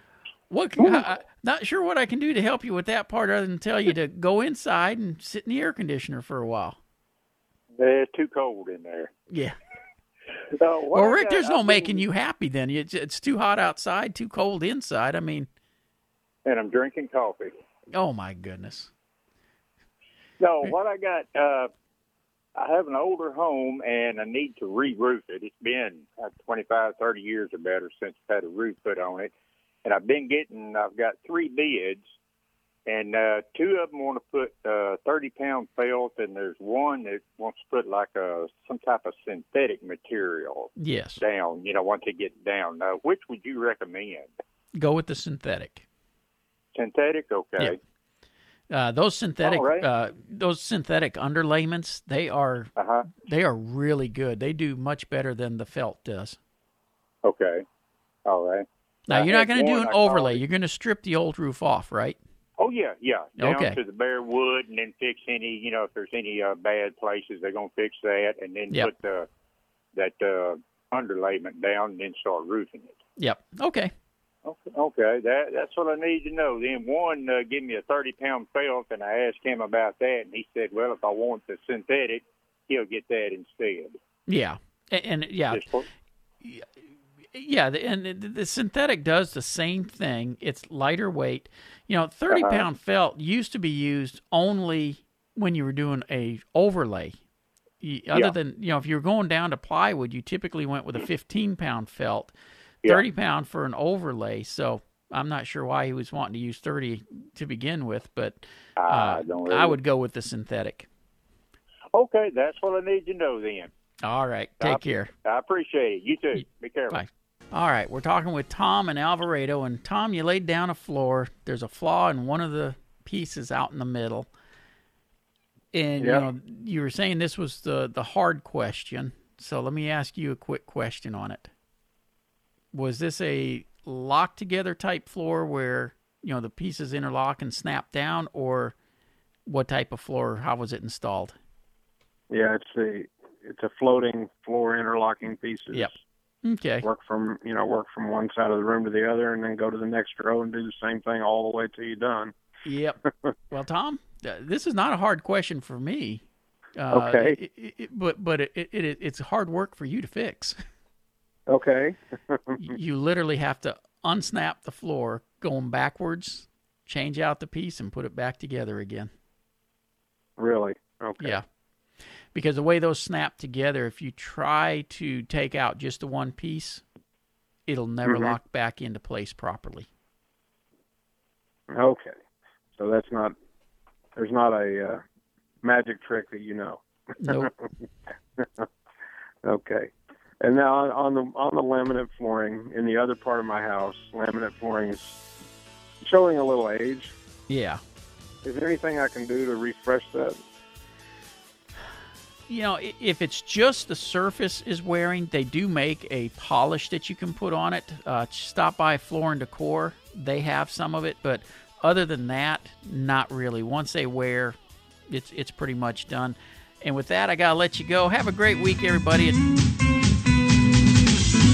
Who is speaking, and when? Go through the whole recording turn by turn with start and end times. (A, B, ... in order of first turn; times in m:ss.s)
0:00.5-0:06.8 A
0:00.8-0:01.0 B
0:07.8-0:09.1 B
0:09.3-0:09.6 A
0:10.5-0:12.0 B
0:10.9-0:15.5 A
0:16.4-0:17.5 B
0:17.9-0:18.9 A
0:20.4-0:21.7 B
0:22.6-0:29.3 B
0:29.8-0:32.0 B
0:32.9-0:44.3 B
0:40.8-0:41.2 A
0:44.8-0:45.8 A
0:46.7-0:47.8 B
0:48.7-0:52.7 A
0:49.4-0:49.8 B
0:52.8-0:53.1 B
0:53.2-0:56.4 A
0:57.2-0:57.6 B
0:58.2-1:00.4 B
0:59.1-1:02.2 A
1:02.6-1:09.3 B
1:03.4-1:03.8 A
1:09.9-1:13.0 B
1:13.2-1:13.9 A
1:14.4-1:23.9 B
1:24.3-1:25.6 A
1:25.5-1:25.8 B
1:26.4-1:26.7 A
1:27.3-1:37.2 A
1:32.3-1:32.6 B
1:37.8-1:42.3 A
1:42.8-1:50.9 A
1:48.8-1:49.8 B
1:51.9-1:53.7 B
1:54.0-1:55.1 A
1:54.6-1:57.0 B
1:56.9-2:04.3 A
2:05.7-2:11.5 A
2:06.0-2:06.2 C
2:12.7-2:18.8 A
2:19.5-2:21.4 A
2:22.3-2:26.0 C
2:26.4-2:26.8 A
2:26.8-2:32.3 C
2:32.6-2:33.0 A
2:33.5-2:36.2 A
2:36.8-2:40.6 A
2:36.9-2:37.4 C
2:41.5-2:42.6 C
2:42.6-2:49.1 A
2:50.4-2:51.4 C
2:51.2-2:51.4 A
2:52.3-2:56.8 A
2:57.7-2:59.9 A
2:58.0-2:58.3 C
3:01.7-3:02.1 C
3:02.8-3:03.3 C
3:04.2-3:05.0 C
3:05.6-3:07.7 C
3:07.2-3:07.5 A
3:08.4-3:08.6 C
3:09.4-3:15.2 C
3:16.0-3:17.1 C
3:17.5-3:17.8 A
3:18.4-3:20.4 C
3:22.5-3:34.6 A
3:35.1-3:39.4 A